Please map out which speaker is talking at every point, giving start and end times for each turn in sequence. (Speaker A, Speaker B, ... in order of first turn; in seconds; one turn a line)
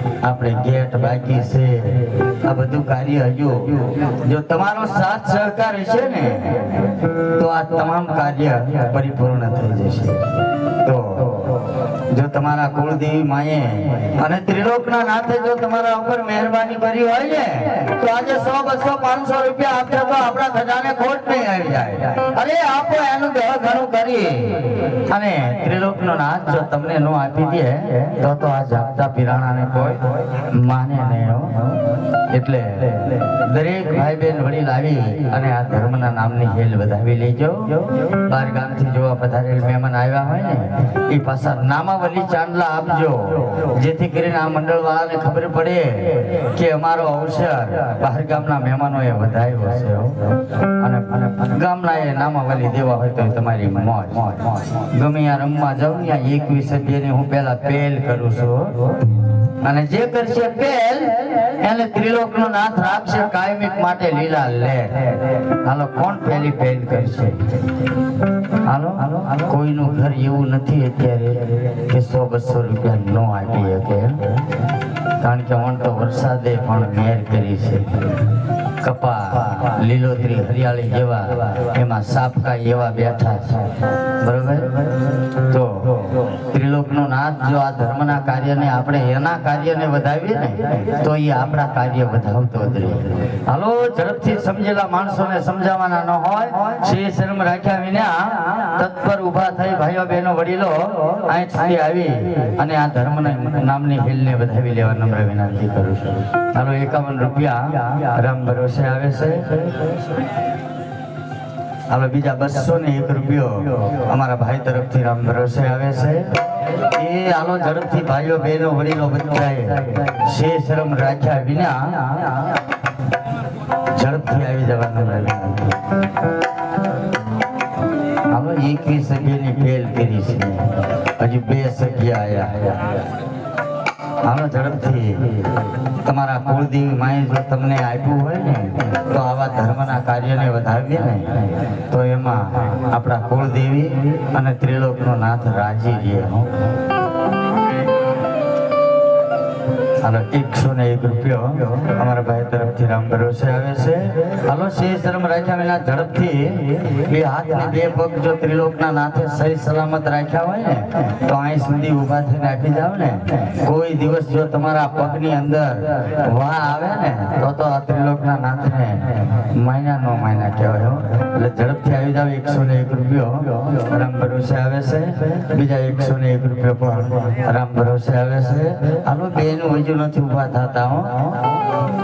Speaker A: 0.2-58.9
Speaker A: 59.6-67.7
Speaker A: 68.6-74.4
Speaker A: 75.2-78.2
Speaker A: 78.8-110.0
Speaker A: 111.9-122.3
Speaker A: 123.9-125.8
Speaker A: 128.3-132.9
Speaker A: 134.2-135.5
Speaker A: 136.0-146.6
Speaker A: 150.0-181.5